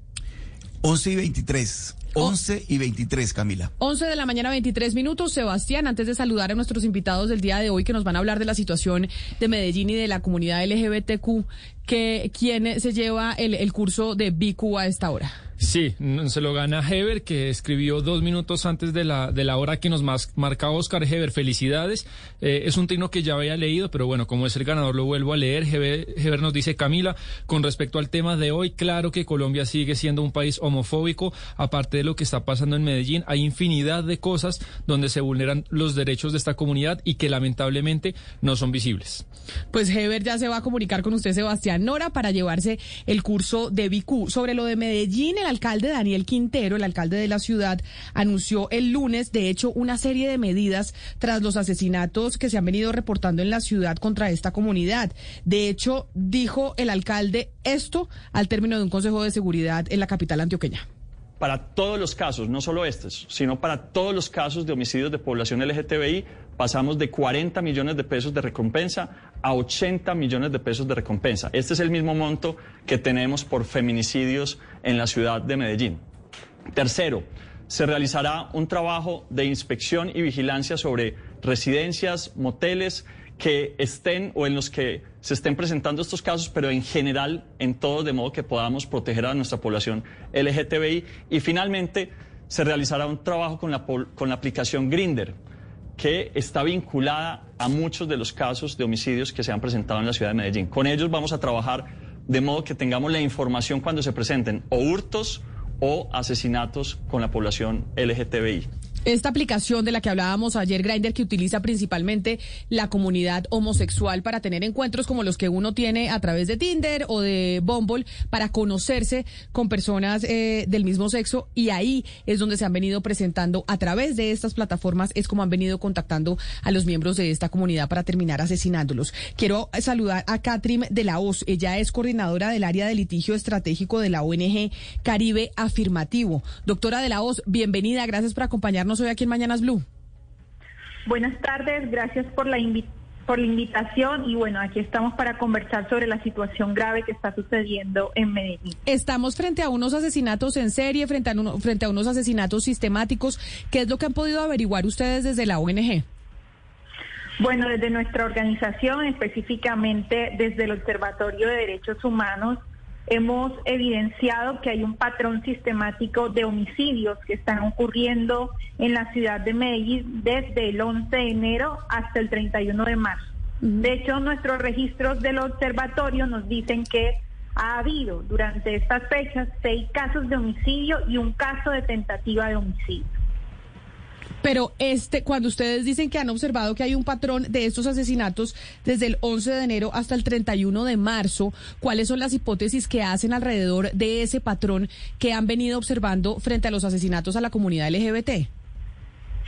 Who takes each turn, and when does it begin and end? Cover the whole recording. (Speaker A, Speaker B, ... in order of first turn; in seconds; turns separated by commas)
Speaker A: 0.8-3.7, Speaker B: 3.8-15.3, Speaker C: 15.6-39.2, Speaker B: 39.7-60.8, Speaker D: 61.4-76.0, Speaker D: 76.7-95.4, Speaker D: 96.0-108.7, Speaker B: 109.1-139.8, Speaker E: 141.1-148.8, Speaker B: 148.9-156.1, Speaker E: 157.4-173.2, Speaker E: 173.8-183.1, Speaker B: 184.4-198.5